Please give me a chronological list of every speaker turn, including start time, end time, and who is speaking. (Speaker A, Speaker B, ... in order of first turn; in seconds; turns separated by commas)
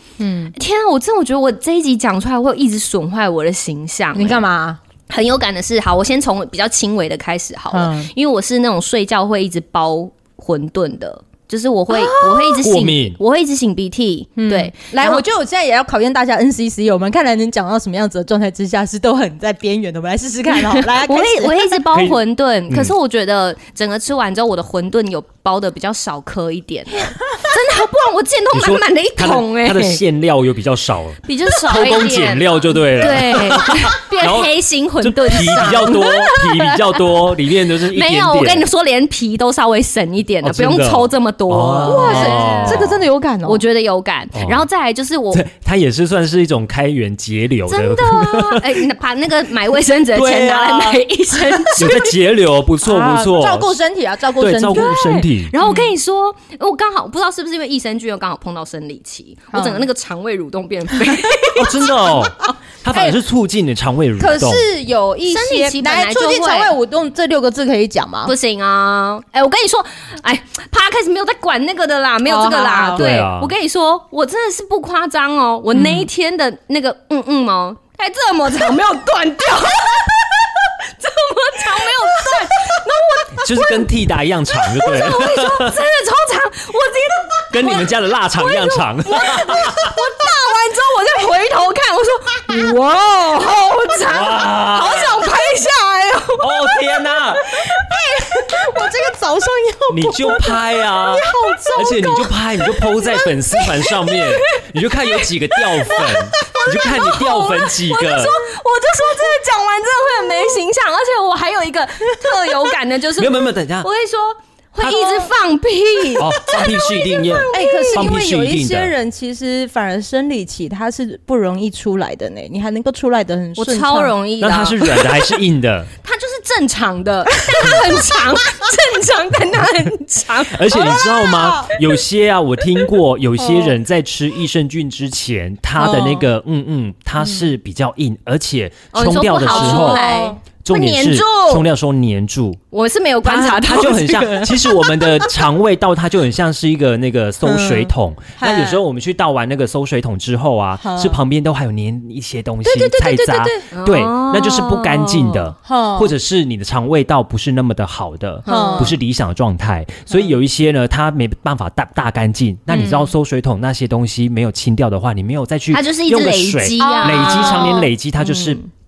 Speaker A: 0.2-0.5, Speaker B: 0.6-4.4, Speaker A: 4.2-4.8, Speaker B: 5.1-15.2, Speaker A: 7.7-8.1, Speaker A: 11.9-12.6, Speaker C: 12.6-13.2, Speaker A: 14.4-21.8, Speaker B: 20.7-30.0, Speaker C: 21.9-22.2, Speaker C: 28.5-38.7, Speaker B: 31.2-42.9, Speaker A: 33.3-33.8, Speaker C: 40.4-43.0, Speaker A: 41.8-43.6, Speaker B: 43.4-45.5, Speaker C: 44.3-44.6, Speaker C: 45.3-48.9, Speaker B: 47.7-52.1, Speaker C: 50.1-51.0, Speaker C: 51.8-53.8, Speaker A: 52.8-55.0, Speaker C: 54.4-55.5, Speaker B: 54.7-62.2, Speaker A: 55.6-55.9, Speaker A: 59.5-59.9, Speaker A: 61.0-61.3, Speaker C: 61.5-64.7, Speaker A: 62.4-63.2, Speaker A: 64.2-68.3, Speaker B: 65.3-66.8, Speaker B: 68.3-83.9, Speaker A: 72.3-73.1, Speaker C: 73.0-73.5, Speaker A: 75.7-76.1, Speaker C: 83.3-85.8, Speaker B: 84.7-96.8, Speaker C: 87.5-89.9, Speaker A: 89.8-90.4, Speaker C: 94.0-95.2, Speaker C: 96.4-97.6, Speaker A: 97.5-103.3, Speaker C: 99.9-108.4, Speaker A: 105.9-106.4, Speaker B: 106.7-118.1, Speaker C: 113.2-113.9, Speaker C: 114.8-115.2, Speaker C: 116.2-118.9, Speaker A: 117.5-124.2, Speaker B: 123.6-125.2, Speaker C: 124.4-125.9, Speaker B: 126.0-131.1, Speaker A: 127.4-127.8, Speaker C: 130.5-140.0, Speaker A: 130.7-131.7, Speaker A: 135.8-136.3, Speaker A: 137.2-137.5, Speaker B: 138.9-141.7, Speaker A: 139.5-140.4, Speaker C: 140.6-142.6, Speaker B: 142.7-144.9, Speaker C: 143.2-168.6, Speaker A: 147.4-148.8, Speaker A: 150.8-151.2, Speaker A: 152.6-153.7, Speaker B: 153.7-155.5, Speaker A: 155.6-156.1, Speaker B: 158.4-158.9, Speaker A: 158.5-159.0, Speaker B: 162.7-163.1, Speaker B: 165.7-168.7, Speaker A: 166.8-167.9